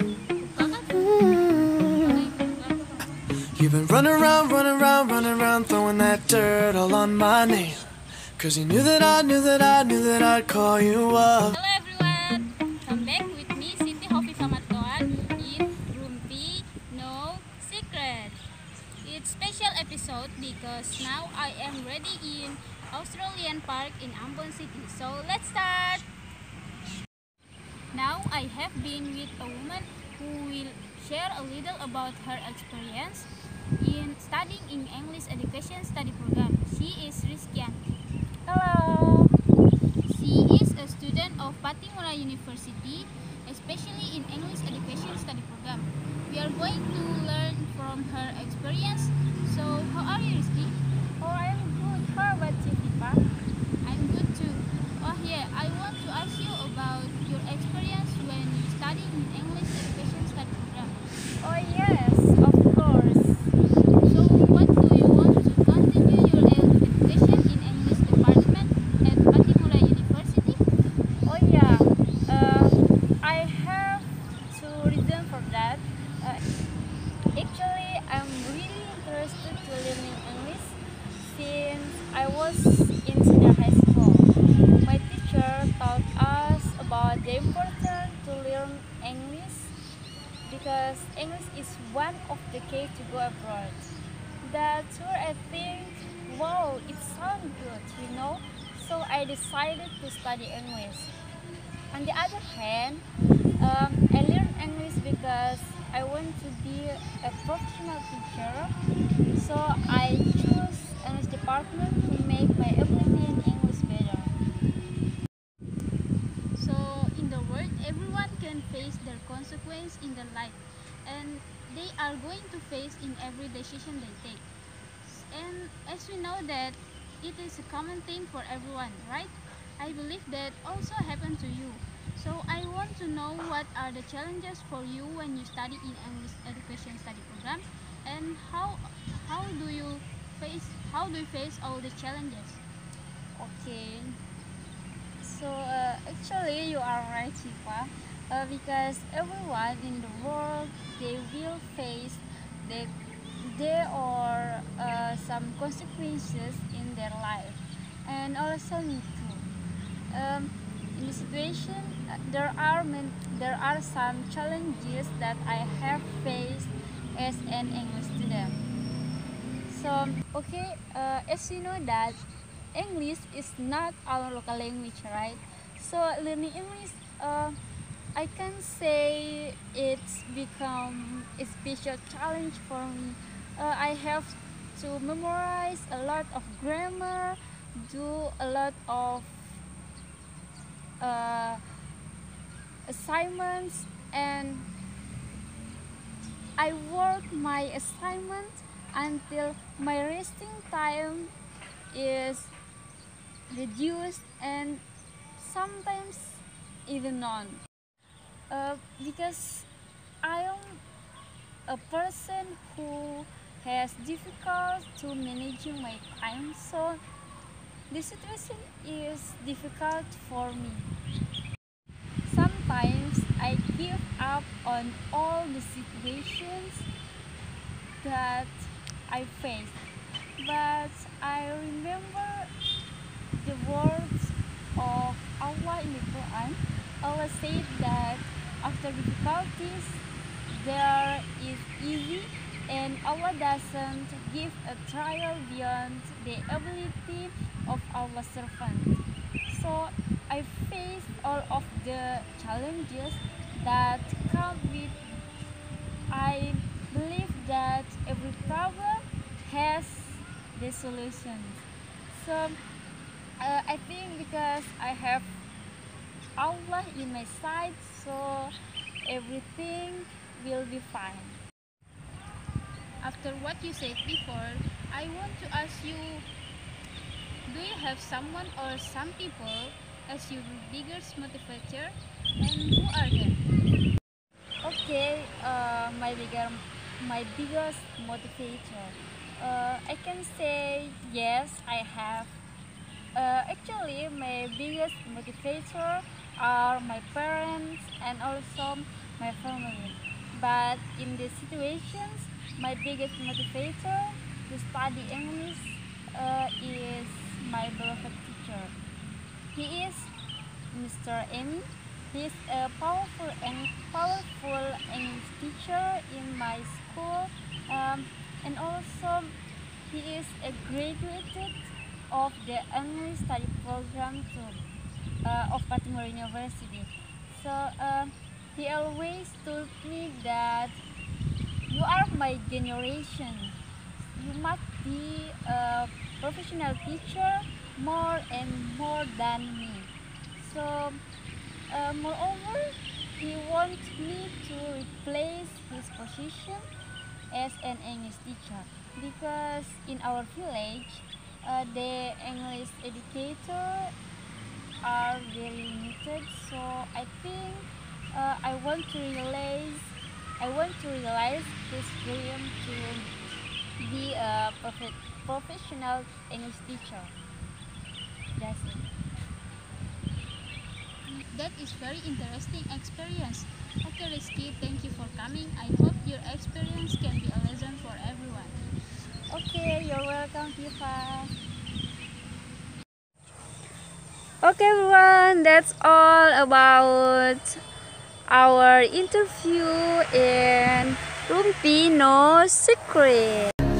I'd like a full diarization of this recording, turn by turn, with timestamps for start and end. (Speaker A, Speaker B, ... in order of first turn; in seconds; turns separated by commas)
Speaker A: 0.4-3.0, Speaker B: 1.6-1.9, Speaker B: 3.5-7.8, Speaker B: 8.4-11.5, Speaker A: 11.5-18.4, Speaker A: 19.0-26.1, Speaker A: 27.9-37.8, Speaker C: 38.5-39.3, Speaker A: 40.0-50.8, Speaker C: 51.2-53.2, Speaker A: 53.8-61.0, Speaker C: 61.4-63.5, Speaker A: 64.0-70.6, Speaker C: 71.2-76.4, Speaker C: 77.3-84.3, Speaker C: 84.8-89.7, Speaker C: 90.5-93.8, Speaker C: 94.4-101.1, Speaker C: 101.9-103.0, Speaker C: 103.6-108.7, Speaker C: 109.3-114.3, Speaker A: 116.5-124.4, Speaker A: 125.0-142.6, Speaker C: 143.4-144.2, Speaker C: 145.2-159.5, Speaker C: 160.1-168.6, Speaker C: 169.7-172.2, Speaker C: 172.7-177.6, Speaker C: 178.1-189.5, Speaker C: 191.0-191.6, Speaker C: 192.9-194.7, Speaker C: 196.6-201.3, Speaker C: 201.9-202.5, Speaker C: 203.5-204.8, Speaker C: 205.4-207.6, Speaker C: 208.5-209.7, Speaker C: 210.2-210.8, Speaker C: 211.7-217.0, Speaker C: 217.9-220.9, Speaker C: 222.2-226.9, Speaker C: 228.0-229.8, Speaker C: 230.4-232.5, Speaker C: 233.3-255.0, Speaker C: 256.1-262.6, Speaker C: 263.4-265.3, Speaker C: 266.4-271.4, Speaker A: 273.0-276.2, Speaker A: 277.4-283.4, Speaker C: 284.6-292.4, Speaker C: 293.1-308.7, Speaker C: 309.5-310.1, Speaker C: 310.7-319.3, Speaker C: 319.9-324.6, Speaker C: 325.2-330.8, Speaker C: 331.7-333.6, Speaker C: 334.1-341.0, Speaker C: 341.7-346.6, Speaker C: 347.3-353.9, Speaker C: 354.8-363.1, Speaker C: 363.8-367.1, Speaker C: 368.4-368.8, Speaker A: 371.1-378.6, Speaker C: 379.3-381.3, Speaker C: 384.4-387.6, Speaker C: 388.3-393.5